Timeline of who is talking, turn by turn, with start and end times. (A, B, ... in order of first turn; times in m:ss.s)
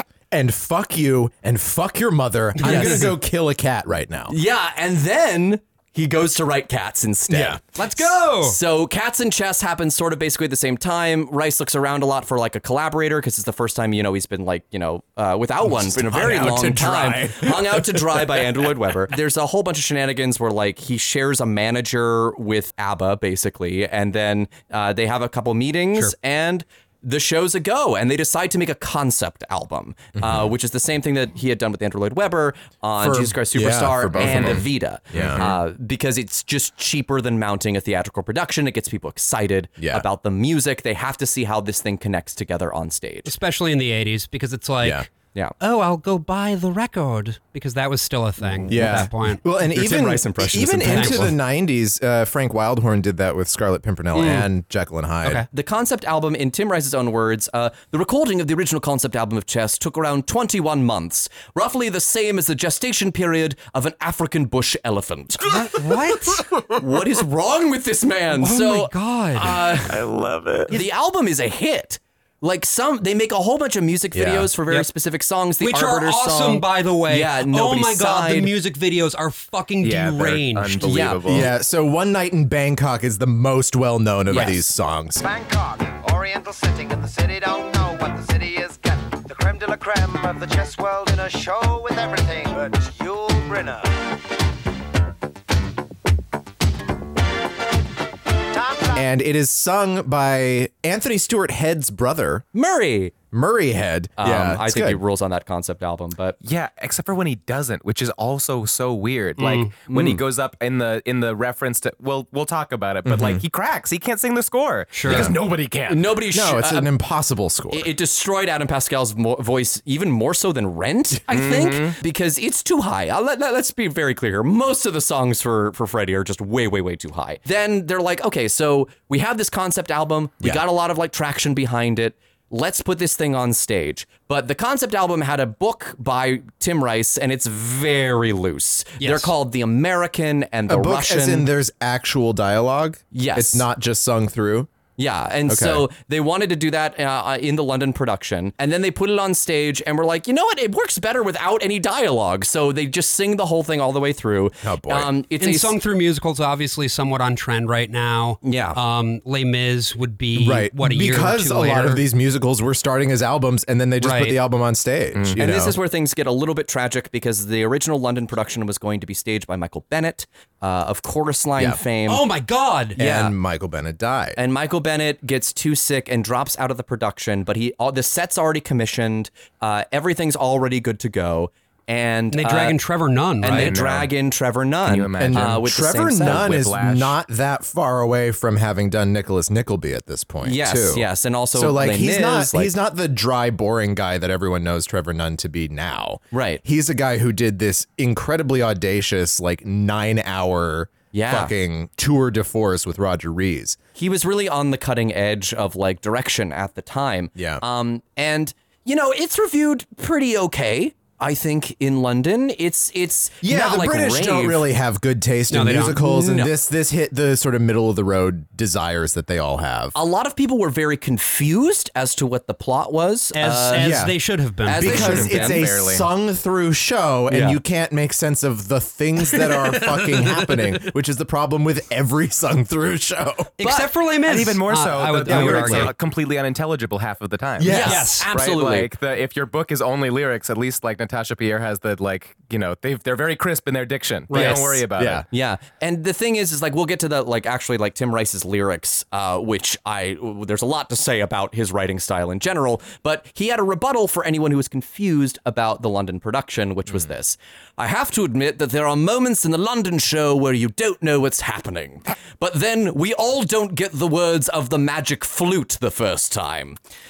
0:00.3-0:04.4 A
0:02.6-0:03.1 B
0:02.6-0:03.1 C
0:04.3-0:43.3 C
0:07.3-0:07.6 A
0:07.8-0:08.6 B
0:15.6-0:18.7 A
0:30.2-0:30.5 A
0:33.0-0:35.5 A
0:39.8-0:40.0 A
0:43.2-0:45.1 B
0:44.8-0:45.1 A
0:45.6-0:49.4 B
0:48.7-0:55.4 A
0:49.7-0:51.4 C
0:50.9-0:51.3 B
0:54.1-0:54.5 B
0:55.5-1:10.1 C
1:05.5-1:06.5 B
1:08.4-1:09.6 B
1:09.5-1:10.7 D
1:10.7-1:18.5 C
1:14.1-1:14.5 A
1:15.6-1:21.1 B
1:19.8-1:21.5 D
1:20.8-1:21.4 C
1:21.2-1:25.2 A
1:24.3-1:24.6 C
1:24.3-1:24.6 B
1:25.2-1:33.9 E
1:38.5-1:39.0 E
1:38.9-1:42.4 A
1:42.5-1:43.1 C
1:43.3-1:45.0 A
1:44.2-1:46.4 C
1:46.4-1:56.0 D
1:49.4-1:49.7 B
1:49.8-1:50.2 C
1:53.0-1:53.4 A
1:54.9-1:55.3 B
1:55.1-1:55.3 A
1:55.9-1:56.9 C
1:56.3-1:57.9 A
1:57.7-2:21.5 C
2:01.3-2:02.0 D
2:19.0-2:19.3 B
2:20.7-2:24.7 A
2:23.1-2:23.6 C
2:25.0-2:35.7 C
2:25.5-2:25.9 A
2:34.6-2:35.1 A
2:35.4-2:42.0 B
2:38.4-2:38.8 C
2:40.3-2:45.8 A
2:44.0-2:44.4 B
2:45.4-2:52.3 C
2:52.1-2:53.0 B
2:53.0-2:53.4 C
2:53.0-2:54.4 A
2:54.4-3:02.8 C
3:02.3-3:03.8 B
3:03.4-3:06.6 C
3:03.4-3:04.1 D
3:04.8-3:05.6 D
3:05.2-3:23.8 A
3:06.1-3:07.2 D
3:10.4-3:12.7 C
3:16.3-3:16.6 C
3:21.1-3:21.5 C
3:24.0-3:34.6 C
3:27.3-3:27.6 A
3:33.4-3:39.9 A
3:35.5-3:36.3 B
3:36.0-3:36.5 C
3:39.9-3:44.0 C
3:43.3-3:45.1 B
3:43.7-3:53.5 A
3:44.6-3:45.7 C
3:45.0-3:46.1 D
3:47.3-3:47.6 C
3:49.3-3:50.6 B
3:53.6-3:55.9 B
3:53.6-3:53.9 C
3:54.2-4:05.2 D
3:55.3-3:55.9 C
3:57.6-3:58.1 A
3:57.6-3:58.9 C
3:57.8-3:58.3 B
4:04.3-4:04.6 C
4:04.3-4:04.8 B
4:04.9-4:05.2 A
4:05.3-4:26.8 C